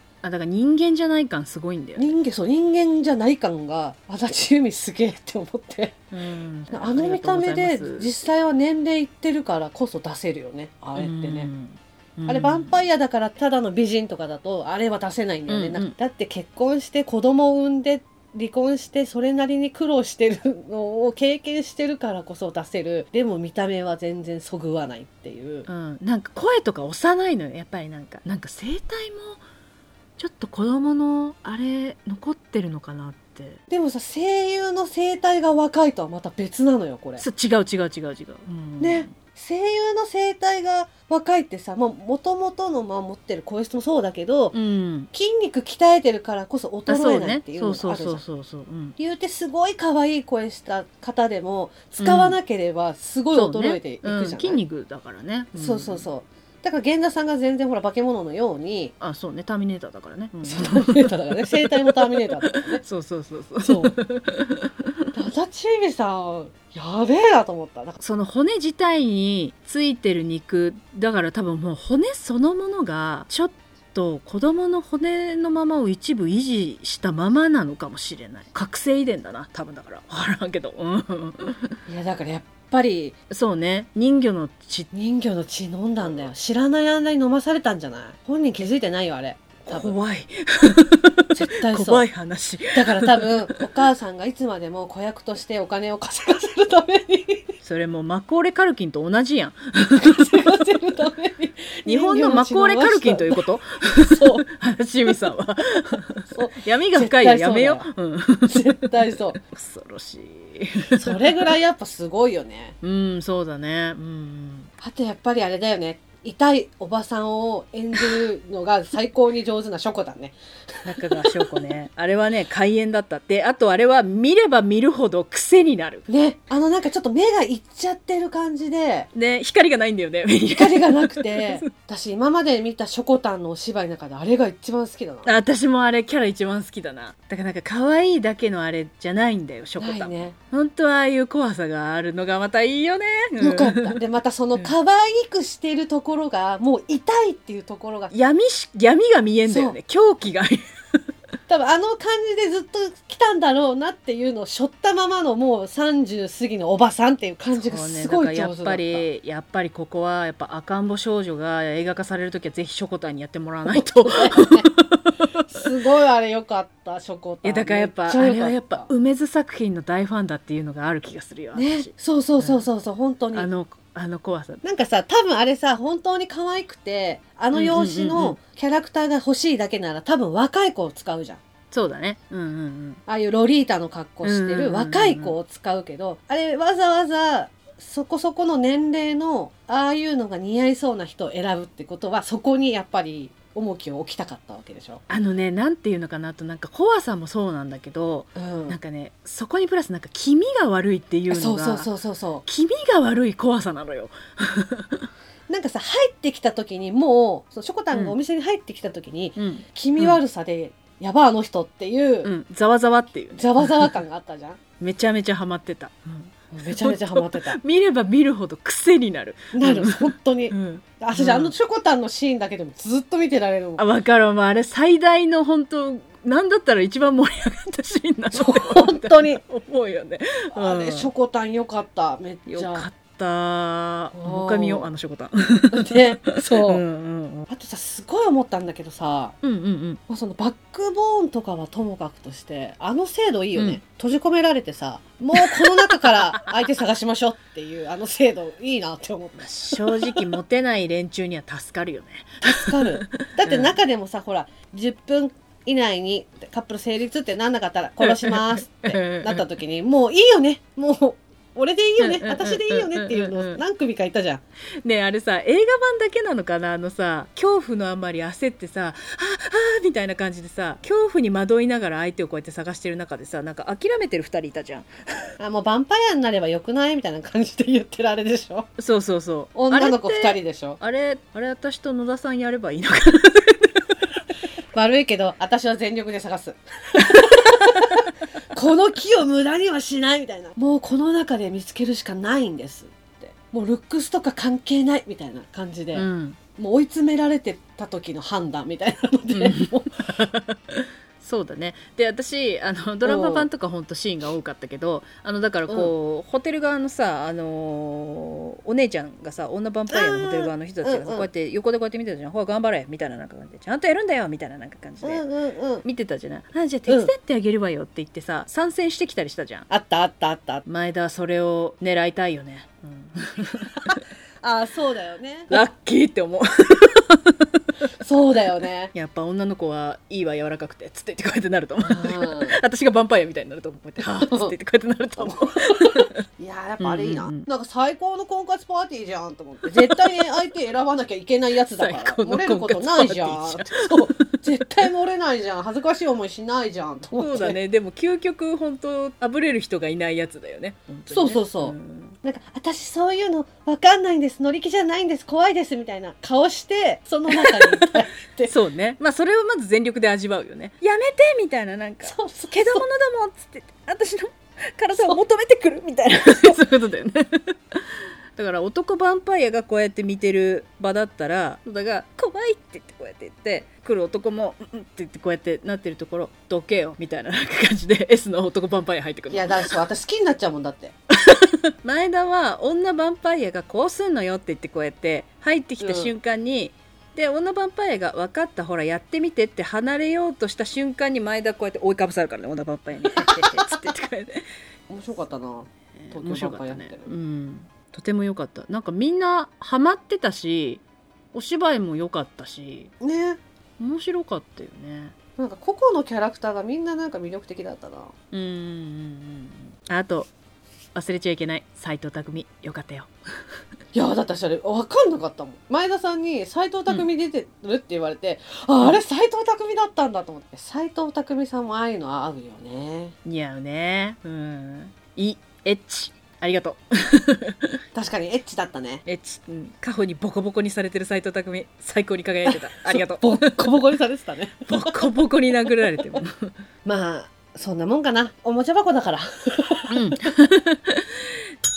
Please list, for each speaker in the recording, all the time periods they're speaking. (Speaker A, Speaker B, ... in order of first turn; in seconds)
Speaker A: 0.2-2.1, 6.1-8.1, 10.9-12.8, 15.5-15.9, 25.6-29.4, 30.2-33.6, 37.2-39.1, 44.5-45.1, 46.9-49.0, 52.0-52.4, 53.3-56.0, 59.0-65.1, 68.0-81.7, 83.3-84.9, 89.7-93.8, 97.6-100.5, 101.8-111.4, 112.8-114.7, 120.8-126.1, 129.1-131.6, 135.2-144.0, 148.1-150.6, 157.6-165.3, 167.4-172.7, 173.3-174.6, 177.5-178.4, 181.7-183.0, 184.2-185.3, 195.1-201.9, 202.4-205.1, 209.3-210.2, 212.2-213.9, 214.8-221.5, 223.8-231.1, 232.5-237.5, 239.4-240.0, 243.5-243.8, 245.3-246.5, 249.4-253.8, 258.0-259.4, 262.0-263.6, 264.8-275.3, 278.8-283.9, 295.9-296.4, 299.3-315.2, 315.8-319.7, 320.6-324.0, 325.5-327.5, 328.9-336.2, 336.8-337.5, 339.7-340.1, 341.7-344.4, 347.2-352.1, 357.4-357.9, 358.4-379.7, 381.2-394.4, 396.0-400.8, 401.3-402.9, 403.8-405.1, 408.3-410.3, 410.9-413.1, 423.2-427.8, 429.0-433.7, 434.7-436.5, 439.9-441.3
Speaker B: 2.0-6.0, 6.7-11.5, 12.2-25.7, 33.7-37.2, 38.8-44.6, 45.1-48.2, 49.0-54.6, 55.5-58.9, 60.4-62.8, 63.6-64.0, 65.1-68.0, 81.9-83.1, 84.9-89.9, 91.3-92.1, 92.7-97.5, 99.9-103.4, 103.9-104.4, 106.3-107.9, 108.5-109.4, 111.0-112.7, 114.8-120.4, 126.1-129.1, 130.5-135.3, 139.8-140.3, 143.4-148.1, 149.5-149.8, 151.5-159.1, 163.7-164.7, 165.5-168.9, 171.5-173.5, 174.6-181.4, 183.1-195.0, 198.3-198.8, 201.3-202.4, 205.5-212.3, 213.3-214.6, 216.5-217.6, 219.5-223.8, 228.3-229.4, 230.5-232.9, 234.1-234.9, 235.7-236.8, 237.5-239.3, 240.1-250.2, 252.4-264.4, 275.4-278.7, 279.5-280.8, 284.7-300.2, 303.0-303.5, 305.7-305.9, 309.9-311.3, 315.0-315.8, 316.9-317.1, 319.7-320.6, 324.4-325.6, 328.0-328.9, 331.8-332.6, 334.0-334.5, 335.2-347.6, 351.1-358.5, 362.0-362.8, 364.9-365.2, 379.3-380.9, 385.8-386.1, 393.1-393.7, 394.9-397.1, 403.0-403.4, 405.4-408.1, 413.9-423.1, 427.9-429.0, 432.4-435.0, 436.8-440.1